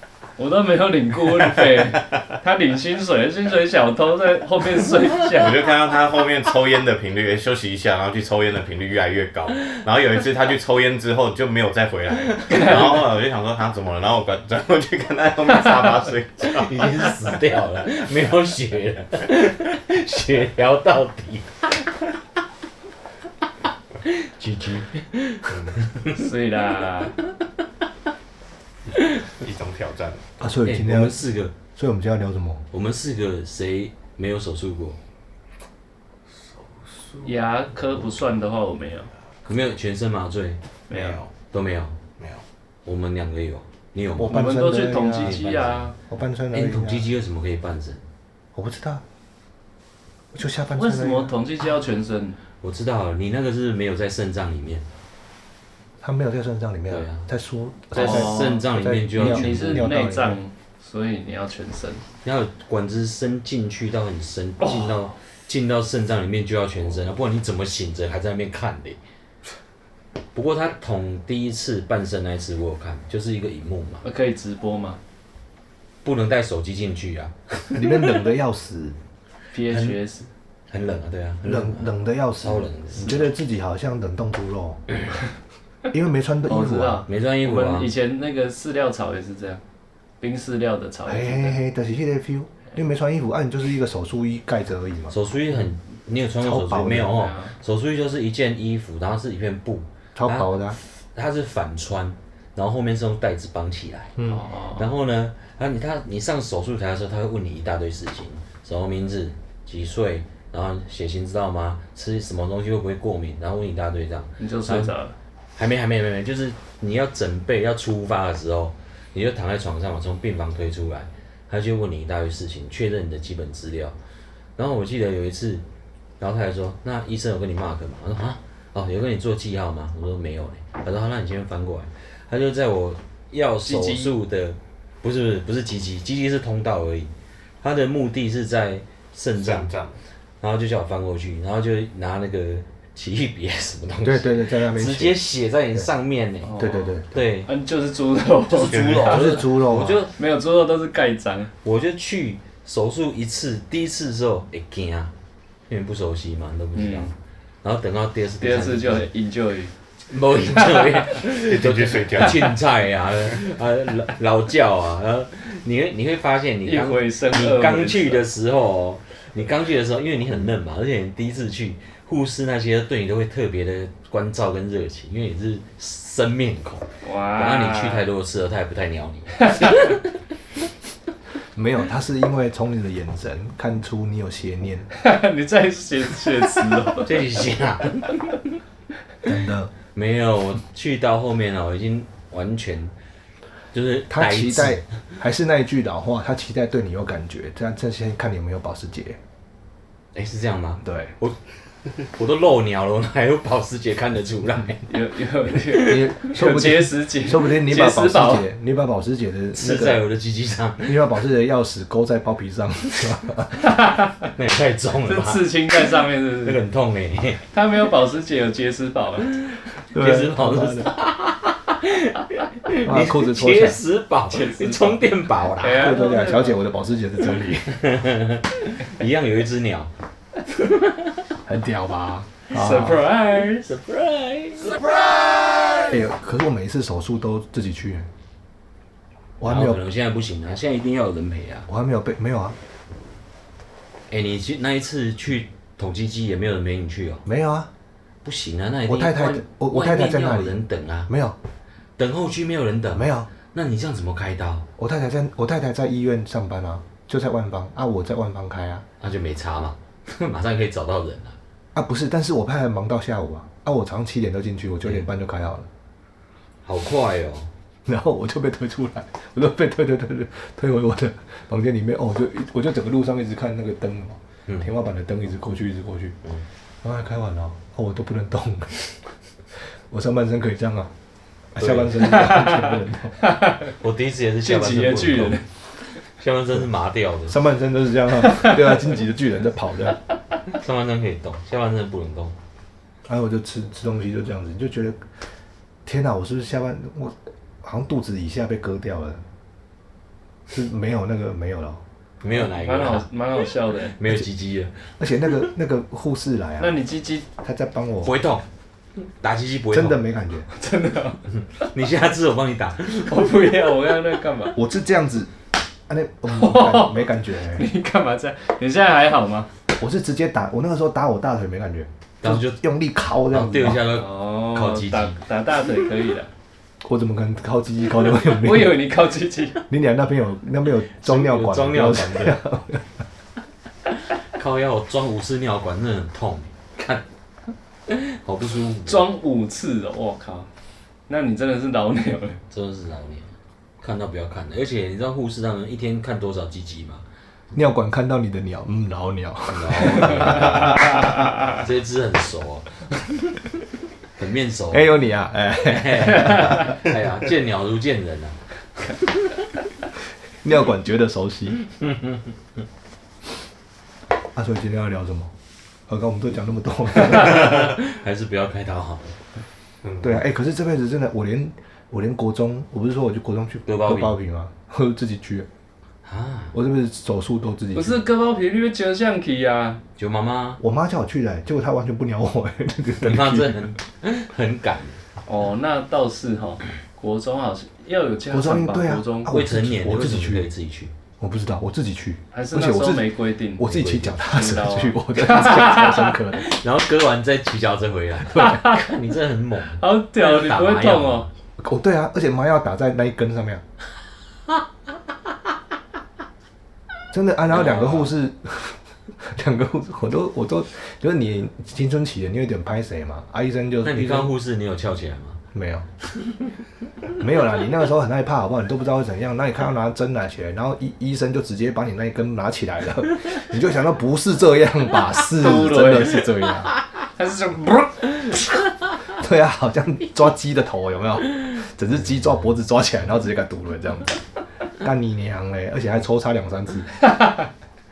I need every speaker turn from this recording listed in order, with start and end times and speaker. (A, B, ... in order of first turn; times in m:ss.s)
0:00.4-0:05.6 A
0:05.3-0:17.2 B
0:12.5-0:12.8 A
0:16.4-0:21.9 C
0:24.0-0:26.2 C
0:25.5-0:25.8 B
0:26.1-0:27.1 A
0:29.4-0:30.3 B
0:30.4-0:32.6 D
0:30.6-0:31.5 C
0:32.7-0:35.0 C
0:36.9-0:37.3 B
0:37.2-0:39.1 A
0:39.4-0:40.6 C
0:40.9-0:41.2 A
0:40.9-0:41.3 B
0:41.5-0:42.0 C
0:42.2-0:42.4 B
0:42.8-0:44.4 C
0:44.2-0:45.4 D
0:44.3-0:45.9 A
0:45.2-0:45.9 C
0:46.1-0:47.1 D
0:46.5-0:48.0 C
0:48.5-0:49.0 D
0:50.3-0:51.3 D
0:50.8-0:52.4 A
0:52.6-0:54.8 C
0:56.0-1:00.4 D
0:56.9-0:57.2 C
0:57.9-0:59.9 C
0:57.9-0:58.6 A
0:59.2-1:02.0 A
1:02.2-1:09.0 C
1:10.3-1:14.0 C
1:14.0-1:15.0 A
1:16.0-1:18.2 C
1:17.7-1:19.0 D
1:19.5-1:20.3 A
1:19.7-1:20.0 C
1:20.7-1:23.2 C
1:21.4-1:24.8 D
1:25.9-1:27.0 D
1:26.5-1:29.6 A
1:27.1-1:27.9 C
1:30.2-1:31.6 A
1:31.0-1:35.2 D
1:35.1-1:44.2 C
1:36.4-1:37.2 D
1:37.1-1:37.5 A
1:40.2-1:40.8 D
1:44.2-1:44.8 A
1:44.7-1:54.9 C
1:54.4-1:55.1 A
1:55.6-2:03.9 C
2:04.6-2:05.6 C
2:06.2-2:17.1 C
2:13.6-2:14.1 A
2:17.6-2:19.7 C
2:19.4-2:20.0 B
2:20.4-2:26.6 C
2:24.0-2:25.2 D
2:26.4-2:26.9 A
2:26.6-2:27.2 D
2:27.1-2:27.5 C
2:27.4-2:29.5 A
2:28.5-2:30.1 C
2:28.6-2:29.2 B
2:29.0-2:30.0 D
2:30.1-2:31.5 A
2:31.6-2:35.1 C
2:35.7-2:39.1 C
2:36.7-2:37.1 A
2:38.4-2:39.7 A
2:40.1-3:00.0 C
2:40.6-2:41.0 A
2:41.3-2:42.6 B
2:46.6-2:48.2 A
2:57.0-2:58.0 A
2:59.5-2:59.8 A
3:01.5-3:04.9 D
3:05.0-3:07.3 A
3:07.0-3:08.4 C
3:09.2-3:09.7 D
3:09.9-3:12.9 C
3:13.7-3:14.8 C
3:14.1-3:19.2 D
3:20.1-3:21.4 C
3:20.8-3:21.1 D
3:22.0-3:24.9 C
3:24.9-3:28.4 A
3:25.7-3:30.0 D
3:29.5-3:31.0 C
3:30.8-3:33.6 D
3:33.6-3:34.3 A
3:34.3-3:35.6 C
3:35.0-3:36.6 A
3:36.4-3:37.4 C
3:37.5-3:39.4 A
3:39.9-3:40.9 D
3:39.9-3:46.0 C
3:42.8-3:43.8 D
3:44.3-3:45.0 A
3:45.6-3:46.6 A
3:45.7-3:47.8 D
3:47.6-3:49.9 C
3:50.5-3:51.1 C
3:51.4-3:53.0 D
3:52.5-3:53.7 A
3:53.6-3:55.9 C
3:55.8-3:58.1 D
3:59.4-3:59.8 D
3:59.4-4:01.7 C
4:01.7-4:02.6 D
4:04.1-4:07.2 C
4:07.2-4:07.7 D
4:08.2-4:11.1 C
4:08.9-4:11.4 D
4:12.0-4:14.6 C
4:12.9-4:13.3 D
4:14.8-4:18.8 D
4:19.0-4:21.4 C
4:21.7-4:25.7 D
4:26.6-4:27.5 C
4:27.8-4:36.2 D
4:36.8-4:38.9 D
4:39.9-4:40.9 D
4:41.5-4:43.2 D
4:41.6-4:42.3 C
4:42.2-4:43.7 A
4:43.8-4:45.4 C
4:44.4-4:45.4 A
4:46.0-4:47.4 C
4:47.3-4:50.0 D
4:50.5-4:52.3 C
4:53.0-4:55.0 D
4:55.8-4:59.2 D
5:00.5-5:01.8 D
5:02.2-5:03.1 C
5:02.3-5:04.0 A
5:03.9-5:04.8 C
5:05.0-5:06.8 D
5:06.6-5:07.2 A
5:07.4-5:08.2 D
5:08.0-5:08.4 C
5:09.0-5:10.0 C
5:09.7-5:10.5 D
5:10.5-5:11.2 A
5:11.6-5:13.5 C
5:12.9-5:14.6 A
5:14.5-5:15.3 D
5:15.9-5:17.7 D
5:16.3-5:19.5 A
5:19.7-5:23.9 D
5:22.2-5:22.6 C
5:23.3-5:25.2 C
5:23.9-5:26.3 A
5:26.8-5:28.9 D
5:28.1-5:29.6 A
5:29.7-5:32.9 D
5:31.0-5:32.4 C
5:34.3-5:37.0 C
5:37.9-5:39.0 C
5:38.8-5:40.5 A
5:41.1-5:42.4 A
5:42.5-5:47.0 C
5:47.5-5:51.0 D
5:49.5-5:52.8 C
5:54.2-5:54.9 C
5:54.7-5:56.7 D
5:55.6-5:59.0 C
6:00.4-6:01.6 D
6:01.8-6:02.2 C
6:04.3-6:05.3 D
6:05.9-6:07.8 D
6:07.1-6:09.1 C
6:09.8-6:10.1 B
6:10.0-6:15.5 D
6:13.7-6:14.2 C
6:16.0-6:16.5 C
6:16.5-6:18.0 D
6:17.7-6:19.8 A
6:20.0-6:20.6 C
6:20.6-6:23.7 D
6:23.0-6:25.0 C
6:25.3-6:29.3 A
6:28.3-6:30.5 D
6:29.3-6:30.9 C
6:31.2-6:36.5 D
6:32.3-6:36.1 A
6:33.8-6:34.1 C
6:36.4-6:41.3 C
6:38.3-6:38.9 A
6:39.8-6:41.3 A
6:41.6-6:43.6 D
6:47.1-6:54.3 D
6:47.5-6:48.1 C
6:53.8-6:55.4 C
6:55.5-6:55.9 D
6:56.2-6:56.4 C
6:57.2-7:06.7 D
7:05.4-7:06.2 A
7:07.2-7:08.2 A
7:09.1-7:14.2 D
7:14.8-7:16.9 D
7:17.1-7:17.4 A